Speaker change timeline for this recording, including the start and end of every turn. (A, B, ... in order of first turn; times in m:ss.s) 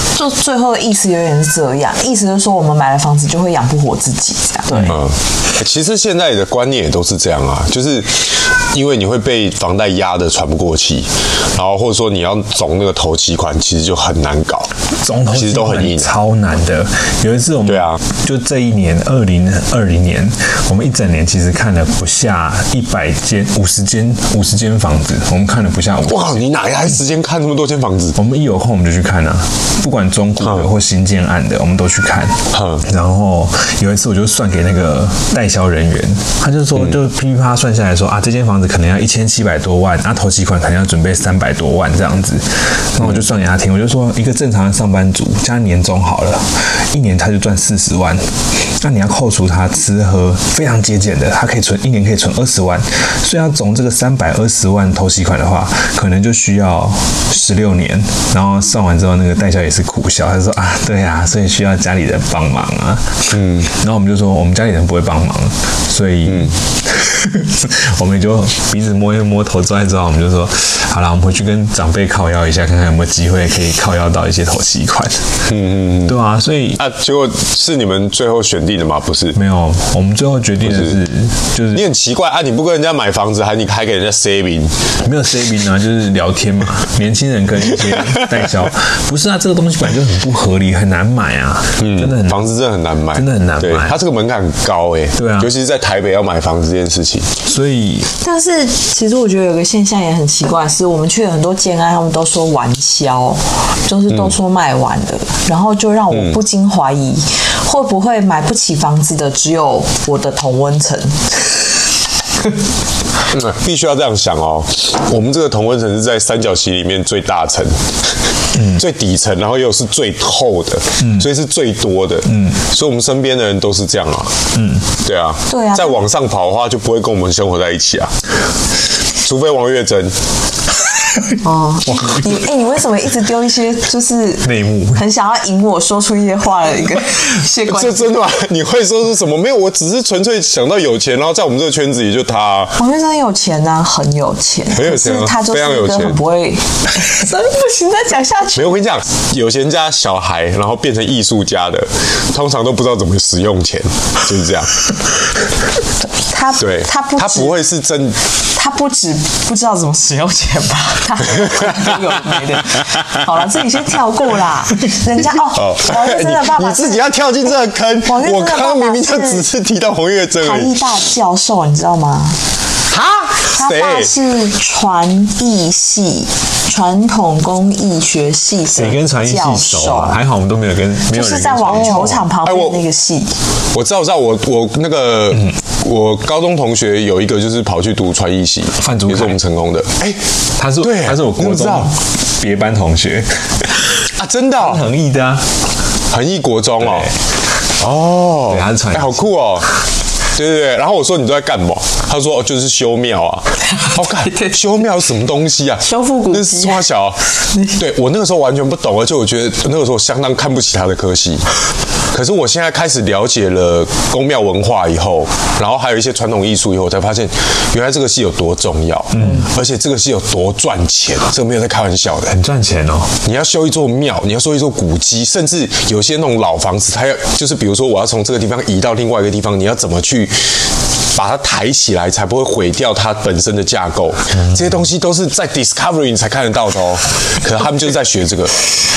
0:00.1-0:05.0 A
0:04.9-0:14.7 B
0:15.0-0:26.4 C
0:15.3-0:16.1 B
0:17.7-0:18.0 B
0:26.1-0:28.2 B
0:28.2-1:15.5 C
0:32.5-0:32.8 B
1:03.3-1:03.7 B
1:15.5-1:16.2 B
1:16.1-1:16.8 C
1:16.8-1:19.4 B
1:19.3-1:21.9 C
1:20.6-1:21.0 B
1:21.7-1:24.8 B
1:25.0-1:32.5 C
1:31.8-1:37.4 B
1:33.2-1:34.0 C
1:35.2-1:35.5 C
1:37.5-1:38.1 C
1:38.2-1:51.6 A
1:53.3-1:57.9 B
1:58.5-1:58.8 C
1:58.7-2:04.4 B
2:01.0-2:01.3 C
2:02.3-2:02.6 C
2:04.5-2:04.9 C
2:05.0-2:08.1 B
2:05.5-2:06.0 A
2:09.2-2:10.2 B
2:11.4-2:18.2 A
2:11.9-2:12.3 C
2:14.4-2:15.0 C
2:17.7-2:22.8 B
2:22.8-2:28.8 A
2:24.7-2:26.2 B
2:28.6-2:34.9 B
2:36.1-2:37.6 A
2:36.6-2:38.2 B
2:38.6-2:47.0 A
2:41.4-2:41.9 B
2:42.6-2:43.1 B
2:45.6-2:50.9 B
2:48.0-2:49.5 A
2:50.4-2:52.4 A
2:52.9-2:54.1 B
2:53.5-3:00.2 A
2:58.8-3:02.2 C
3:01.1-3:03.4 A
3:01.7-3:02.8 B
3:03.7-3:10.2 B
3:08.8-3:09.4 C
3:10.6-3:13.8 C
3:10.8-3:11.9 B
3:14.2-3:14.9 B
3:14.6-3:15.5 C
3:16.1-3:17.1 B
3:16.8-3:17.1 C
3:17.8-3:19.7 B
3:18.5-3:19.3 C
3:20.4-3:31.6 B
3:23.7-3:24.6 A
3:25.8-3:26.9 A
3:27.5-3:27.8 A
3:32.1-3:42.4 B
3:39.2-3:39.5 C
3:42.3-3:43.2 C
3:43.2-3:58.6 B
3:54.3-3:54.7 C